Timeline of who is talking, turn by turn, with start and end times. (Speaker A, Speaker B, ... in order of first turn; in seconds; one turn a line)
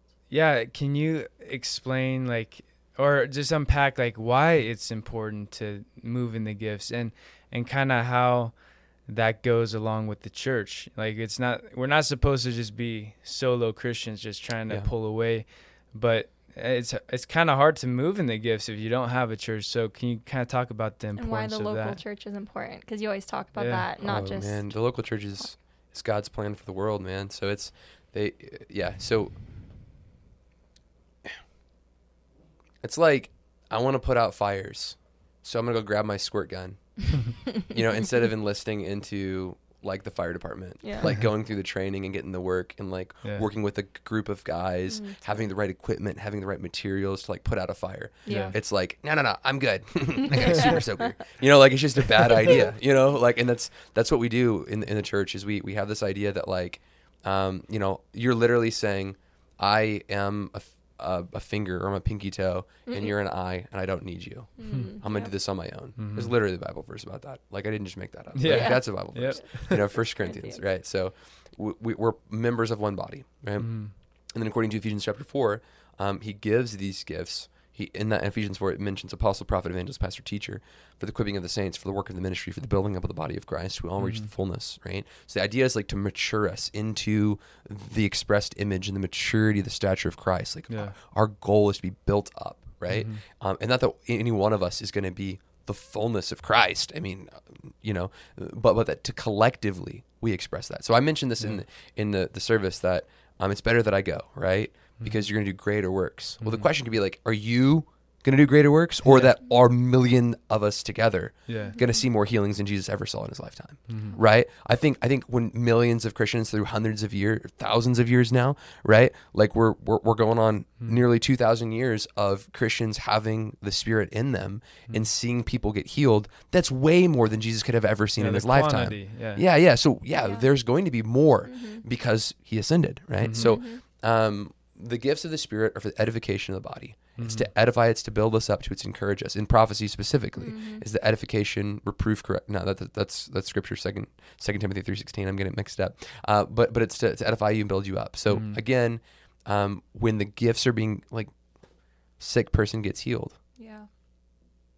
Speaker A: 0.3-22.0
Speaker B: 21.2-25.5
Speaker A: 23.6-23.9
Speaker C: 24.0-29.4
Speaker C: 32.8-151.3
Speaker B: 40.8-41.1
Speaker B: 44.9-45.4
Speaker B: 48.2-48.6
Speaker A: 48.3-48.6
Speaker B: 50.3-51.2
Speaker B: 62.9-63.1
Speaker B: 64.6-65.3
Speaker A: 64.7-65.0
Speaker A: 66.0-66.3
Speaker A: 68.3-70.0
Speaker B: 68.5-70.6
Speaker A: 73.6-73.9
Speaker A: 84.0-84.3
Speaker A: 92.9-93.2
Speaker A: 105.0-105.2
Speaker A: 106.4-106.7
Speaker A: 109.0-109.3
Speaker A: 111.5-111.8
Speaker B: 111.7-112.0
Speaker A: 113.9-114.2
Speaker A: 128.2-129.4
Speaker B: 130.2-130.5
Speaker B: 131.5-131.8
Speaker A: 133.2-133.6
Speaker B: 133.3-133.8
Speaker A: 137.2-137.5
Speaker B: 140.4-140.8
Speaker A: 148.3-148.6
Speaker C: 152.2-153.4
Speaker B: 153.6-153.9